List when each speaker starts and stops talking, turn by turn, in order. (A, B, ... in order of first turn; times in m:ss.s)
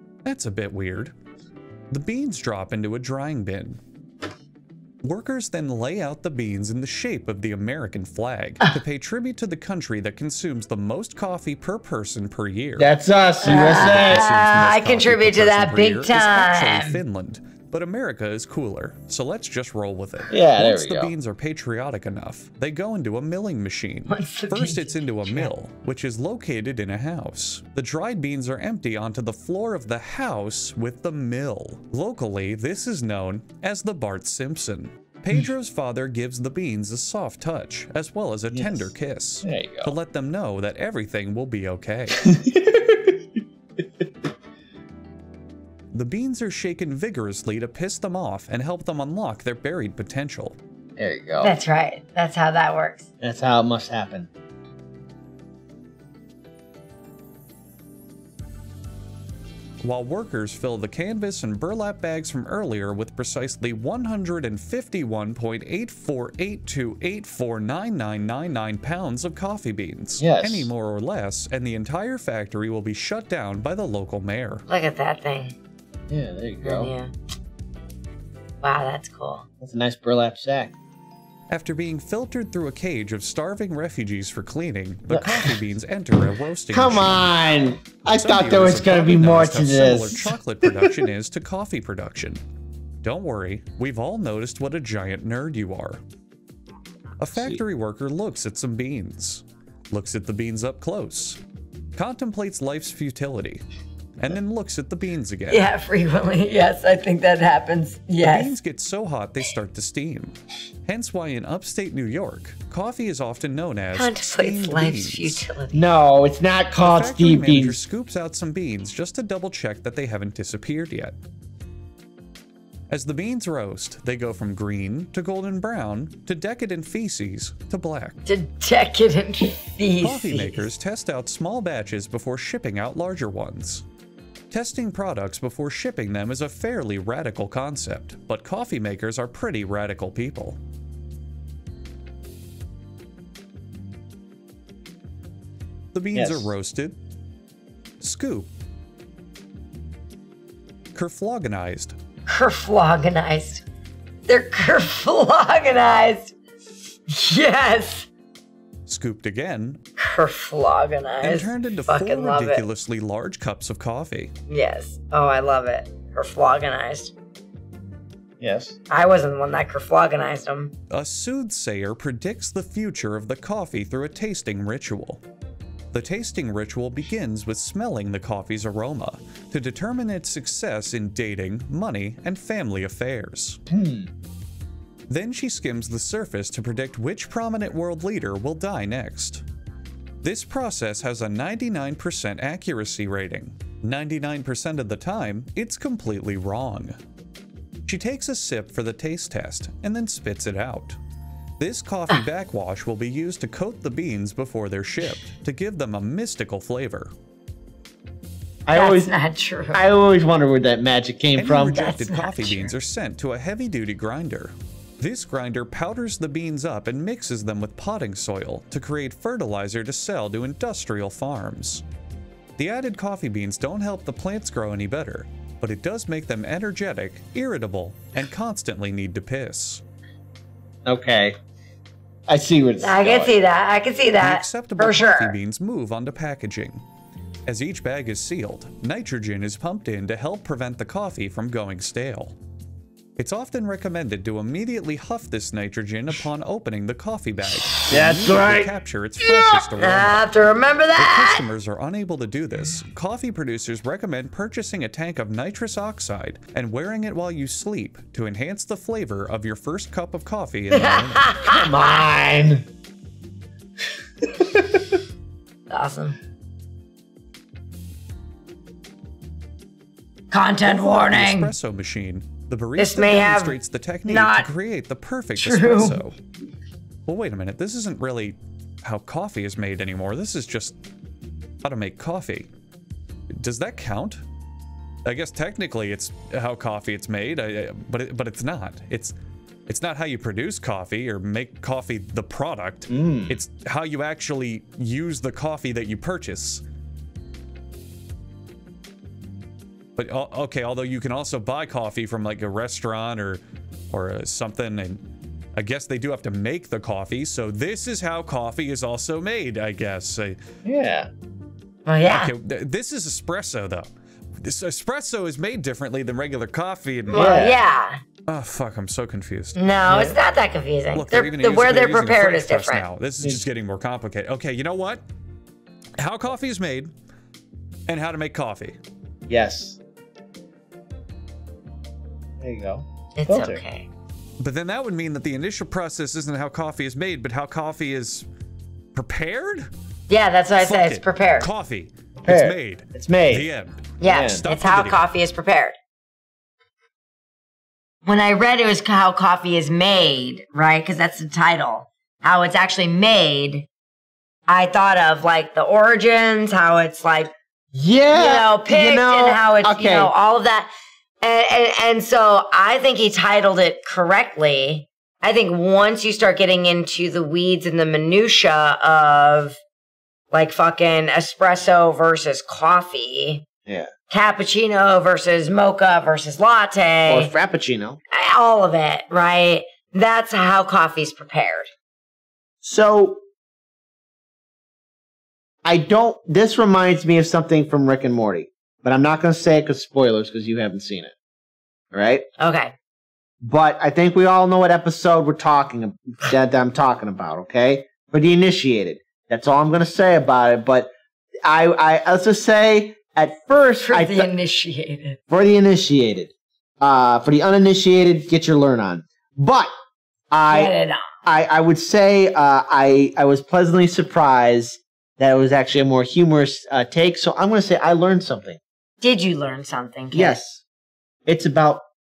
0:00.2-0:01.1 A
0:01.9-0:03.8 A
0:05.0-0:42.2 A
0:12.8-0:14.3 B
0:13.4-0:17.0 C
0:20.3-0:21.1 B
0:24.1-0:25.5 C
0:38.5-0:40.0 B
0:42.2-0:43.2 B
0:45.9-0:50.6 A
0:51.0-0:51.6 B
0:51.4-0:53.1 C
0:53.2-0:54.3 B
0:59.8-1:14.6 A
1:10.2-1:10.7 B
1:14.7-1:15.6 C
1:16.1-1:16.9 B
1:16.6-1:17.1 C
1:18.6-1:19.4 C
1:19.6-1:20.8 B
1:21.5-1:27.3 A
1:25.1-1:25.5 B
1:26.7-1:31.0 B
1:28.2-1:32.4 A
1:33.0-1:36.0 A
1:37.2-1:41.4 A
1:37.4-1:37.6 B
1:42.0-1:43.6 A
1:44.2-1:45.7 A
1:45.5-1:48.5 C
1:48.2-1:50.3 A
1:50.9-1:55.5 A
1:53.9-1:55.9 C
1:55.7-1:57.8 B
1:56.8-2:01.2 A
2:02.9-2:08.2 A
2:08.3-2:10.7 C
2:10.0-2:13.8 A
2:14.5-2:20.6 A
2:25.9-2:27.0 A
2:26.1-2:26.5 B
2:28.0-2:28.5 A
2:30.9-2:32.0 A
2:32.3-2:33.6 C
2:34.3-2:36.3 C
2:37.1-2:38.1 C
2:38.9-2:39.8 A
2:40.0-2:42.7 C
2:41.2-2:44.3 A
2:44.5-2:47.1 C
2:48.4-2:48.8 B
2:48.9-2:50.7 C
2:50.9-2:55.2 A
2:55.9-3:03.6 A
3:03.7-3:04.1 B
3:05.1-3:09.4 A
3:10.2-3:17.0 A
3:17.9-3:21.0 A
3:21.6-3:27.1 A
3:28.7-3:29.1 B
3:28.7-3:29.8 C
3:29.7-3:31.8 B
3:31.3-3:41.8 A
3:31.7-3:32.7 C
3:42.6-3:49.8 A
3:50.8-3:51.4 B
3:52.3-3:53.4 B
3:52.8-3:55.4 C
3:54.2-3:56.8 A
3:57.5-4:02.4 A
4:03.2-4:10.3 A
4:07.9-4:08.7 B
4:09.8-4:11.5 C
4:11.0-4:21.4 A
4:20.7-4:22.0 C
4:21.5-4:22.7 B
4:24.4-4:24.8 B
4:25.7-4:26.2 C
4:30.3-4:31.5 C
4:30.6-4:36.2 A
4:32.8-4:34.5 C
4:35.4-4:36.0 C
4:37.1-4:40.8 A
4:41.6-4:42.5 A
4:43.4-4:44.2 A
4:45.0-4:49.2 A
4:49.7-4:56.6 A
4:52.9-4:53.4 B
5:00.0-5:05.0 A
5:05.6-5:10.4 A
5:10.6-5:11.1 B
5:11.8-5:12.3 C
5:12.1-5:13.9 A
5:14.4-5:17.3 A
5:17.1-5:18.0 C
5:17.1-5:17.6 B
5:18.3-5:19.6 A
5:19.6-5:22.9 C
5:19.9-5:20.2 B
5:20.9-5:25.0 A
5:26.0-5:26.9 A
5:27.9-5:28.8 A
5:29.3-5:29.8 B
5:32.4-5:33.6 B
5:33.2-5:33.9 C
5:34.4-5:38.3 A
5:39.0-5:39.7 A
5:40.1-5:41.5 C
5:40.6-5:45.0 A
5:42.2-5:43.5 B
5:44.0-5:45.8 C
5:44.0-5:44.4 B
5:48.0-5:53.7 C
5:54.5-5:57.3 C
5:57.7-6:00.1 B
5:58.1-6:00.7 C
6:01.2-6:09.6 C
6:10.3-6:13.4 C
6:14.1-6:17.3 C
6:17.1-6:18.0 B
6:18.1-6:21.7 C
6:22.6-6:23.2 B
6:25.6-6:31.1 B
6:31.9-6:32.2 B
6:32.4-6:32.8 C
6:33.4-6:40.9 B
6:41.4-6:44.3 B
6:43.8-6:45.2 C
6:45.3-6:49.7 B
6:50.3-6:50.7 B
6:50.5-6:51.0 C
6:51.2-6:58.6 B
6:59.0-7:00.4 C
7:00.1-7:00.6 B
7:01.3-7:01.8 B